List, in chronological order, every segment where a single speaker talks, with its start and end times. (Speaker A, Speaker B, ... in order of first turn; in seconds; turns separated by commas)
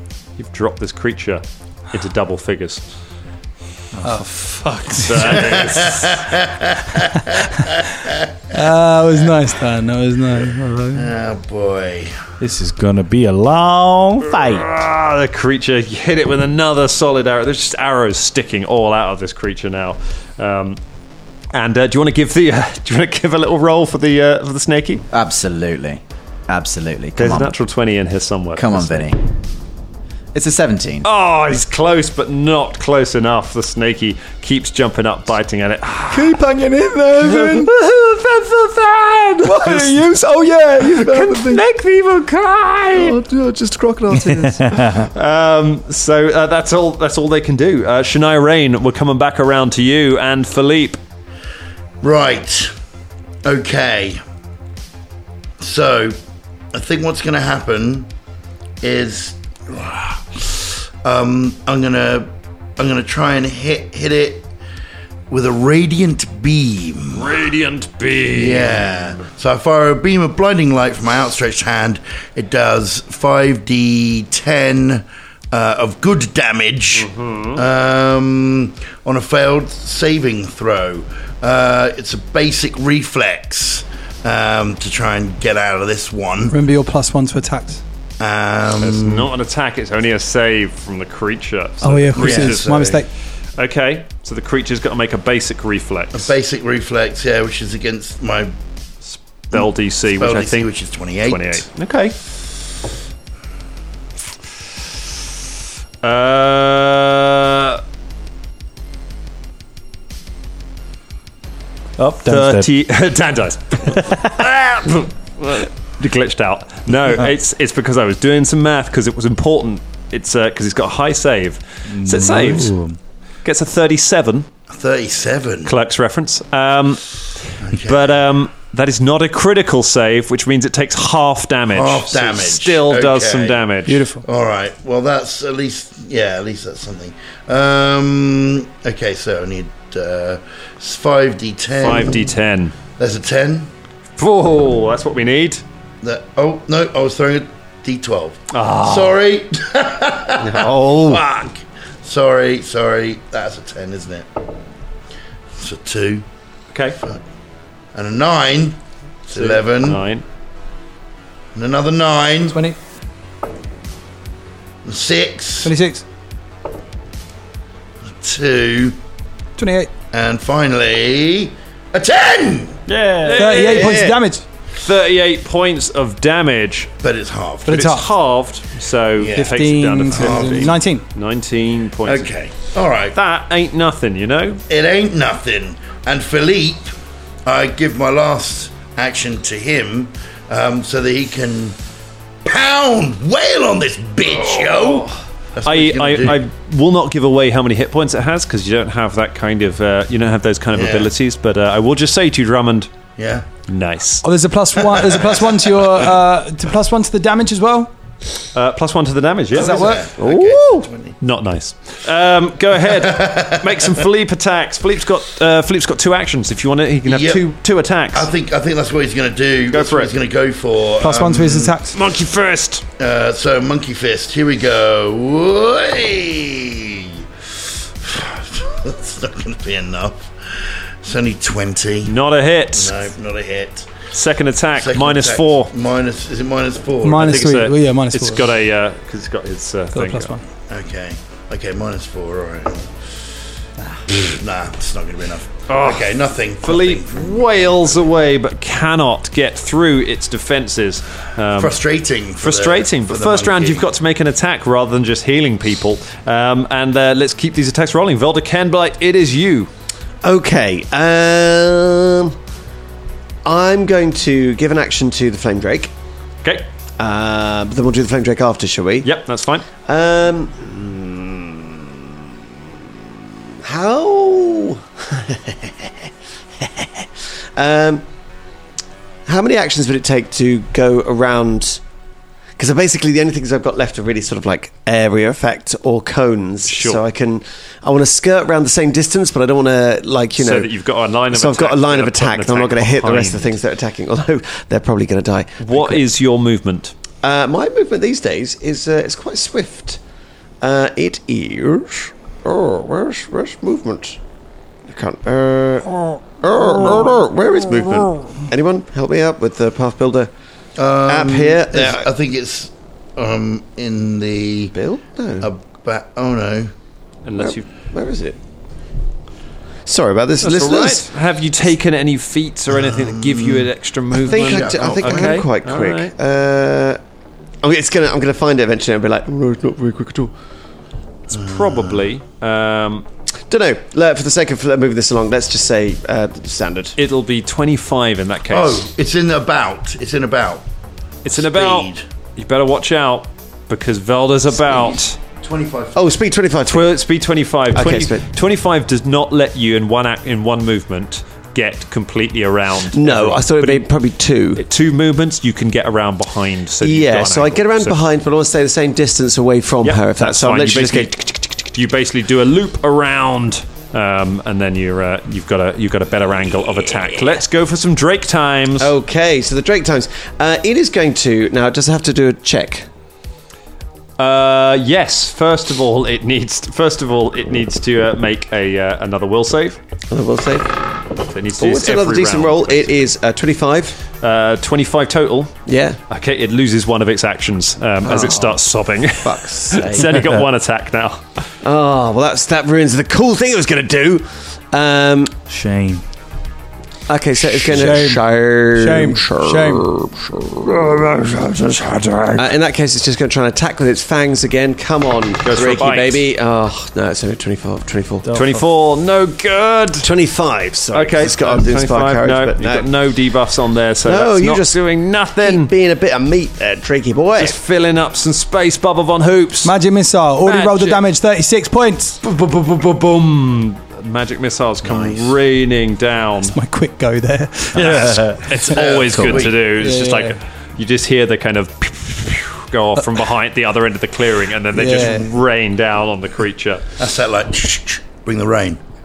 Speaker A: 0.4-2.8, Speaker B: 4.0-5.7, Speaker A: 5.0-6.2, Speaker C: 5.3-8.2, Speaker D: 8.5-11.1, Speaker C: 10.9-12.1, Speaker B: 12.4-14.7, Speaker A: 14.3-20.8, Speaker A: 21.5-25.0, Speaker E: 25.1-27.5, Speaker A: 27.2-29.1, Speaker E: 28.6-29.2, Speaker E: 30.3-31.1, Speaker A: 31.0-36.4, Speaker E: 36.1-41.6, Speaker A: 37.3-37.8, Speaker A: 38.7-40.0, Speaker A: 40.8-43.2, Speaker E: 42.9-44.8, Speaker B: 44.1-45.1, Speaker A: 45.0-51.0, Speaker C: 52.0-52.7, Speaker C: 53.4-54.2, Speaker C: 55.6-56.1, Speaker C: 56.7-58.1, Speaker C: 58.8-64.5, Speaker C: 65.3-67.4, Speaker A: 67.1-69.2, Speaker C: 68.3-86.5, Speaker A: 76.9-77.6, Speaker D: 86.5-87.8, Speaker C: 88.2-89.3, Speaker A: 88.8-93.0, Speaker D: 91.8-93.1, Speaker C: 92.1-93.0, Speaker A: 93.6-96.3, Speaker C: 96.1-98.5, Speaker A: 99.0-100.7, Speaker C: 99.5-101.7, Speaker A: 101.2-102.2, Speaker A: 106.0-107.8, Speaker B: 112.0-112.7, Speaker A: 112.2-122.8, Speaker B: 121.9-123.0, Speaker A: 123.4-124.5, Speaker C: 124.7-125.7, Speaker A: 125.7-127.0, Speaker C: 127.6-128.2, Speaker A: 127.7-134.0, Speaker C: 131.7-133.6, Speaker D: 133.9-134.2, Speaker C: 134.2-142.3, Speaker A: 141.8-142.7, Speaker C: 143.0-143.7, Speaker A: 144.2-145.6, Speaker C: 146.0-154.3, Speaker A: 148.5-149.2, Speaker F: 150.4-151.2, Speaker C: 155.6-156.2, Speaker A: 156.7-157.0, Speaker C: 157.9-160.0, Speaker A: 159.4-160.2, Speaker C: 161.5-162.6, Speaker D: 162.5-162.8, Speaker C: 164.8-165.7, Speaker D: 165.6-166.0, Speaker C: 168.1-168.9, Speaker D: 169.6-169.9, Speaker C: 170.1-172.8, Speaker B: 172.9-173.8, Speaker A: 173.2-174.2, Speaker D: 173.3-174.4, Speaker A: 174.8-176.9, Speaker C: 177.0-177.8, Speaker D: 177.7-178.1, Speaker A: 177.7-182.3, Speaker C: 179.2-180.8, Speaker D: 179.3-181.0, Speaker C: 182.0-183.2, Speaker A: 183.1-184.6, Speaker C: 184.7-186.9, Speaker C: 187.4-191.8, Speaker C: 192.4-196.4, Speaker A: 194.2-202.9, Speaker C: 200.7-201.1, Speaker C: 203.2-203.4, Speaker A: 203.7-204.2, Speaker D: 204.2-207.9, Speaker C: 204.9-205.5, Speaker A: 208.5-210.0, Speaker C: 209.5-211.2, Speaker D: 209.5-210.1, Speaker F: 210.2-210.9, Speaker A: 211.2-218.3, Speaker C: 212.9-213.9, Speaker C: 217.1-217.5, Speaker C: 218.1-221.8, Speaker A: 219.7-220.1, Speaker D: 221.0-222.0, Speaker A: 221.9-222.8, Speaker C: 223.0-227.1, Speaker C: 228.0-230.3, Speaker C: 231.0-232.1, Speaker A: 232.1-233.1, Speaker C: 232.7-233.9, Speaker A: 234.1-235.7, Speaker C: 234.8-237.6, Speaker D: 237.0-238.5, Speaker A: 237.2-240.3, Speaker D: 239.9-240.4, Speaker C: 240.7-242.9, Speaker C: 244.1-247.9, Speaker A: 245.7-251.8, Speaker C: 251.5-253.8, Speaker A: 252.4-259.7, Speaker F: 260.2-262.3, Speaker F: 263.4-265.9, Speaker F: 267.0-269.1, Speaker A: 269.0-269.7, Speaker F: 269.8-271.9, Speaker F: 273.6-275.9, Speaker F: 276.6-278.0, Speaker F: 279.2-281.8, Speaker F: 282.6-290.7, Speaker A: 286.7-287.0, Speaker A: 290.4-293.6, Speaker F: 291.3-296.0, Speaker A: 295.6-296.9, Speaker F: 297.2-300.0, Speaker F: 300.6-304.2, Speaker F: 304.9-310.3, Speaker C: 310.8-314.7, Speaker F: 311.1-312.1, Speaker F: 314.7-315.5, Speaker C: 315.4-316.7, Speaker A: 317.2-317.7, Speaker F: 317.4-318.4, Speaker F: 319.9-321.1, Speaker A: 320.4-326.1, Speaker C: 322.7-325.5, Speaker F: 324.3-327.0, Speaker F: 327.6-330.3, Speaker A: 331.3-333.1, Speaker C: 331.3-332.0, Speaker F: 333.5-336.9, Speaker A: 337.0-338.9, Speaker C: 338.5-340.6, Speaker A: 341.2-345.2, Speaker C: 341.3-342.0, Speaker C: 345.4-346.1, Speaker F: 345.9-347.0, Speaker A: 346.7-353.9, Speaker F: 347.7-348.2, Speaker F: 352.9-354.6, Speaker A: 354.6-358.0, Speaker F: 356.8-361.5, Speaker A: 359.8-368.9, Speaker F: 368.8-372.9, Speaker A: 374.2-379.8, Speaker F: 380.1-380.8, Speaker A: 381.2-383.1, Speaker F: 381.6-384.0, Speaker A: 384.2-391.2, Speaker F: 385.7-386.0, Speaker F: 388.0-388.6, Speaker F: 389.2-390.3, Speaker F: 391.6-395.3, Speaker B: 395.5-396.0, Speaker F: 397.1-400.9, Speaker D: 397.6-399.9, Speaker A: 401.6-402.4, Speaker F: 402.4-408.3, Speaker A: 405.4-406.2, Speaker B: 408.2-408.6, Speaker A: 408.3-410.1, Speaker F: 410.0-412.9, Speaker A: 410.9-415.7, Speaker F: 414.0-414.8, Speaker F: 415.4-417.6, Speaker A: 417.4-419.7, Speaker D: 419.6-422.2, Speaker A: 420.4-421.0, Speaker C: 422.2-422.9, Speaker A: 422.4-426.6, Speaker C: 424.8-425.3, Speaker D: 426.5-428.7, Speaker B: 427.7-428.6, Speaker A: 427.8-437.0, Speaker C: 428.7-429.6, Speaker D: 429.7-430.4, Speaker D: 434.7-435.3, Speaker C: 437.0-438.8